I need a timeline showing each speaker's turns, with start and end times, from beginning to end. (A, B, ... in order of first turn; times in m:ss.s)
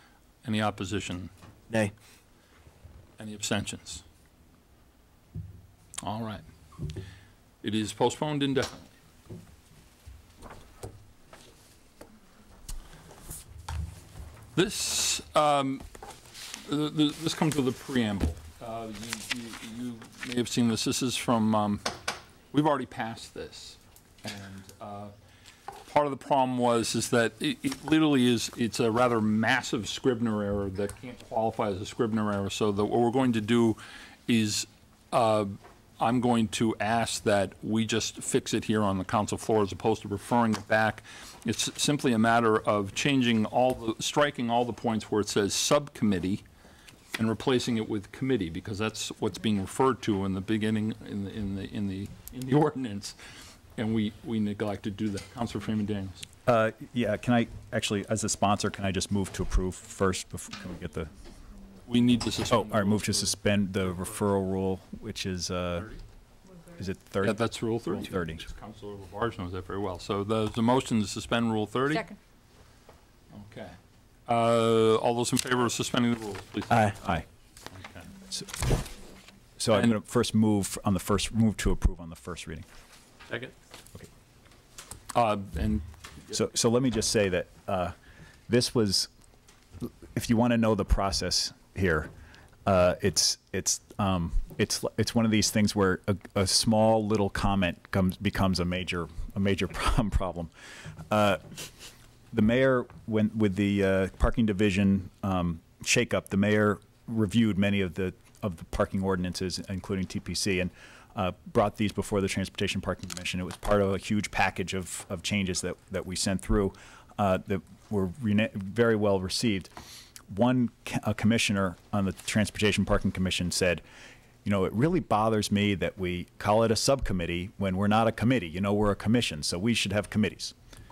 0:00.4-0:01.3 A
0:03.2-0:04.0 A
0:06.0-0:06.4 A
0:07.6-0:08.9 A
0:14.5-0:15.8 A
0:16.5-0:21.9 A
0:22.5-0:25.1 A
0:25.8-0:46.4 A
0:47.2-0:53.2 A
0:53.8-0:56.2 A
0:56.4-1:01.1 B
1:01.8-1:03.4 A
1:02.5-1:05.9 B
1:06.8-1:08.4 B
1:07.2-1:12.1 A
1:13.3-1:13.7 A
1:14.3-1:18.1 A
1:17.0-1:17.2 B
1:18.3-1:18.7 B
1:19.6-1:22.6 B
1:25.1-1:26.4 A
1:26.3-1:27.9 B
1:28.5-1:29.1 B
1:29.8-1:32.1 B
1:32.6-1:40.5 B
1:41.1-1:41.6 B
1:42.3-1:59.7 B
2:00.3-2:03.8 B
2:04.4-2:10.5 B